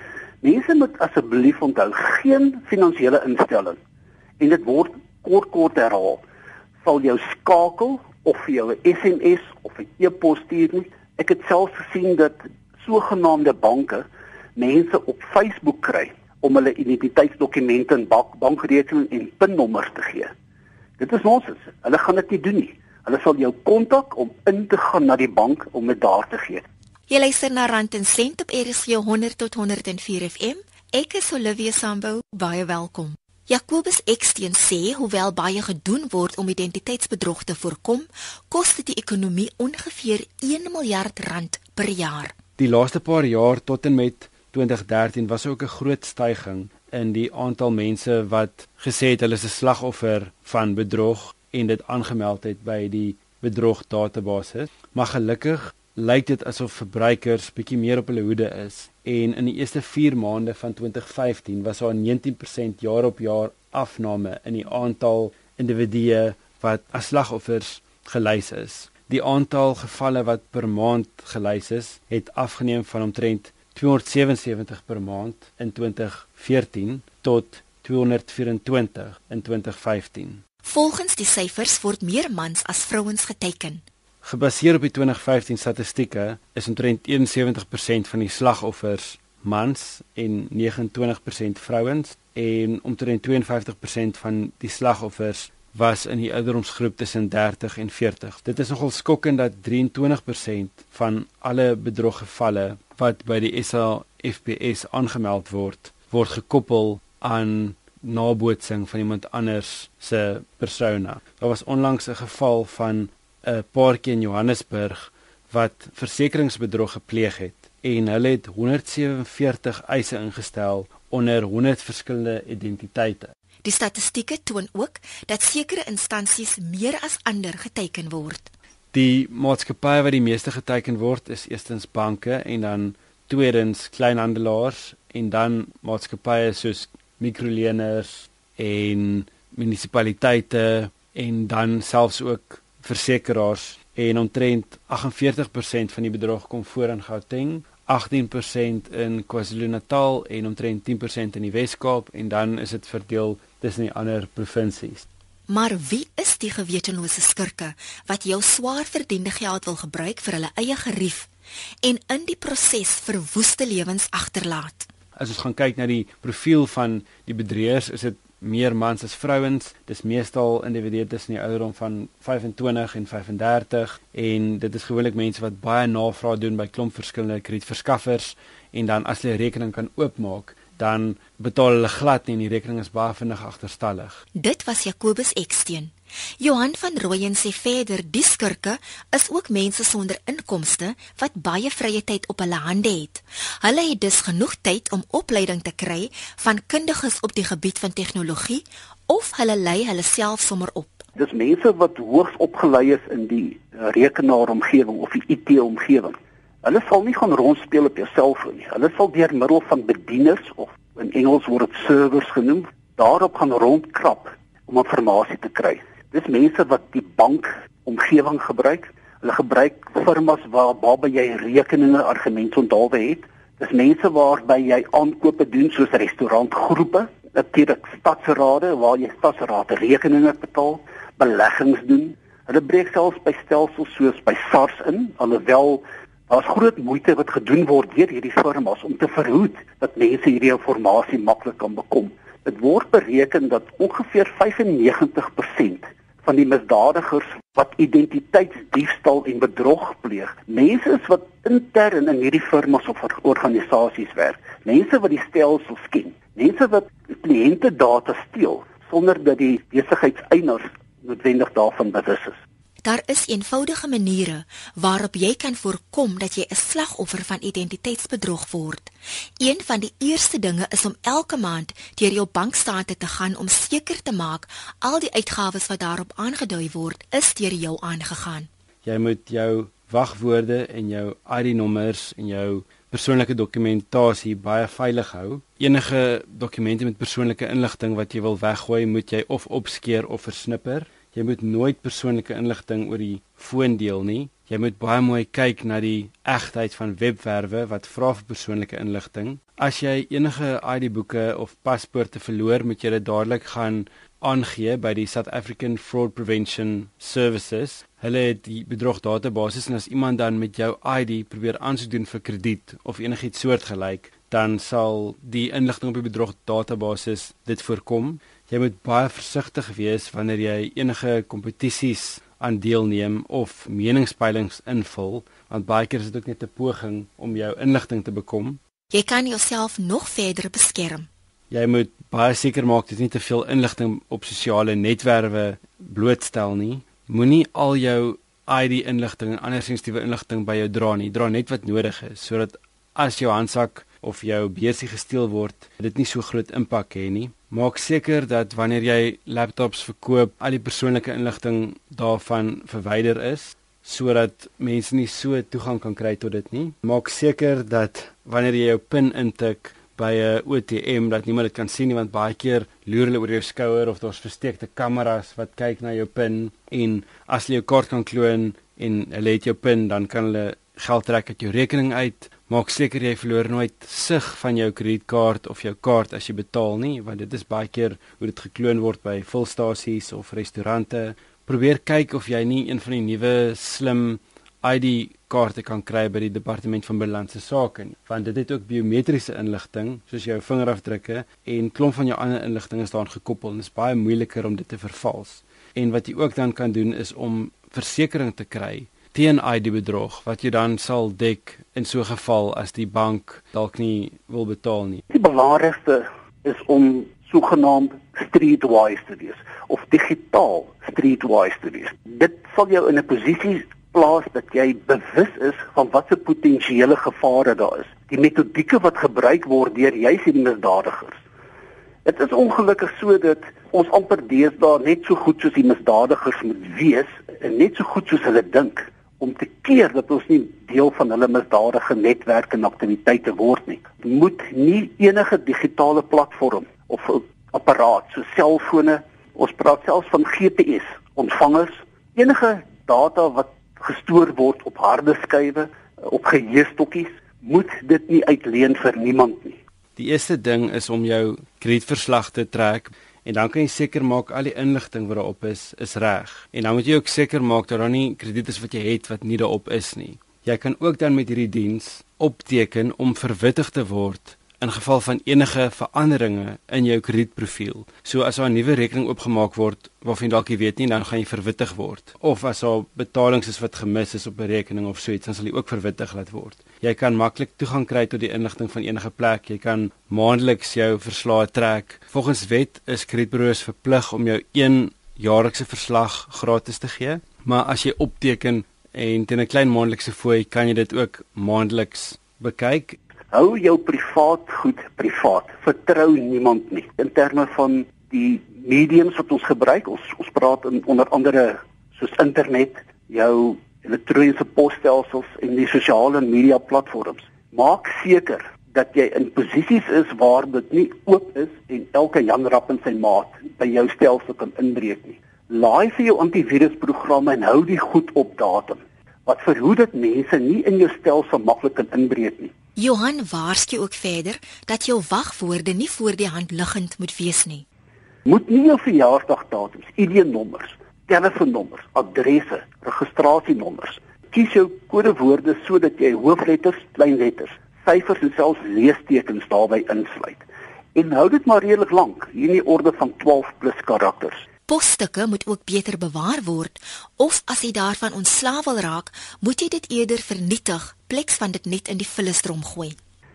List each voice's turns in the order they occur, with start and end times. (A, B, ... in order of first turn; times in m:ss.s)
0:00.4-0:03.8 A
0:04.4-0:06.2 A
0:06.8-0:20.3 A
0:21.0-0:26.6 A
0:27.1-0:42.3 B
0:42.6-1:20.4 C
1:20.6-1:23.8 B
1:24.2-2:03.3 C
2:03.6-2:08.5 B
2:08.9-2:35.0 C
2:35.5-2:41.3 B
2:41.8-2:44.9 B
2:45.2-3:04.2 C
3:04.4-3:21.0 B
3:21.2-4:22.4 A
4:22.8-4:38.5 B
4:38.8-5:28.6 C
5:28.9-5:31.1 B
5:31.5-6:45.0 C
6:45.1-7:01.2 A
7:02.0-7:29.6 A
7:30.0-8:13.0 C
8:13.3-8:42.5 A
8:42.8-8:47.6 B
8:48.2-9:00.4 A
9:01.0-9:04.4 A
9:04.7-9:13.0 B